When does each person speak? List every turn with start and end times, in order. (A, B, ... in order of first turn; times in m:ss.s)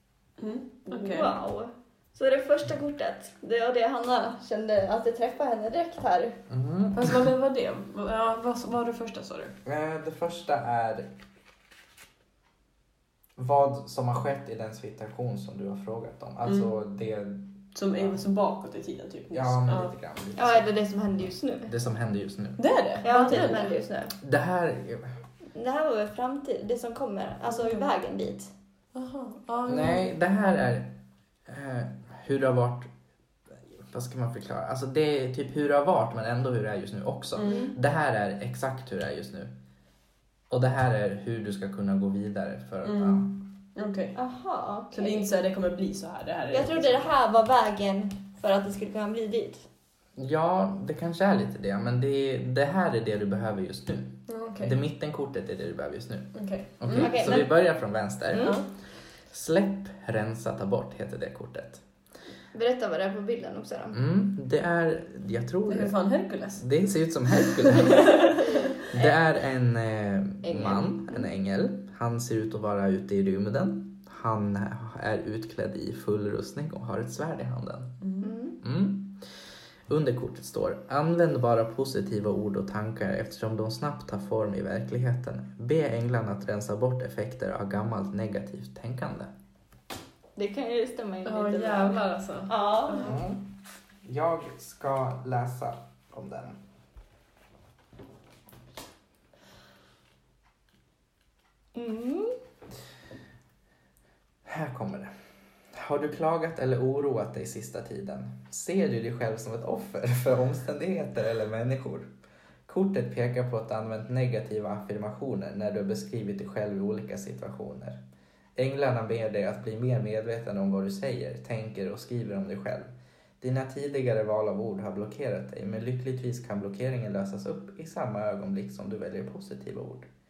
0:00.4-0:01.3 A
0:00.9-0:06.4 B
0:06.5-0:07.2 C
0:06.9-0:09.6 A
0:09.6-0:11.1 C
0:13.4-0:18.2 C
0:16.4-0:16.7 A
0:17.7-0:19.9 A
0:19.3-0:20.7 C
0:20.4-0:21.7 B
0:21.7-0:22.6 C
0:22.6-0:23.7 A
0:23.0-0:24.2 B
0:23.3-0:23.6 C
0:24.2-0:25.1 C
0:25.5-0:28.5 B
0:27.6-0:27.8 A
0:28.9-0:30.1 A
0:29.6-0:32.9 C
0:33.5-0:39.5 C
0:37.4-0:37.7 A
0:37.4-0:37.7 B
0:40.5-0:43.4 C
0:42.8-0:44.2 A
0:44.2-0:45.2 B
0:44.9-0:47.0 A
0:46.5-0:49.6 B
0:50.2-0:58.6 C
0:54.3-0:54.8 A
0:56.3-0:57.2 A
0:56.9-0:57.5 B
0:58.3-0:58.6 B
0:58.4-0:58.6 A
0:59.3-1:01.8 C
1:02.5-1:04.0 B
1:03.9-1:06.0 C
1:05.7-1:06.7 A
1:06.6-1:08.3 C
1:08.0-1:08.4 A
1:08.9-1:18.0 C
1:10.4-1:11.3 B
1:18.0-1:18.3 A
1:18.2-1:18.6 B
1:18.6-1:19.3 C
1:19.9-1:29.3 C
1:30.4-1:33.2 B
1:31.2-1:33.1 A
1:33.0-1:36.6 C
1:41.7-1:42.4 B
1:44.4-1:45.1 C
1:45.7-1:52.1 C
1:52.7-1:58.0 C
1:58.6-2:02.9 C
2:03.4-2:10.1 C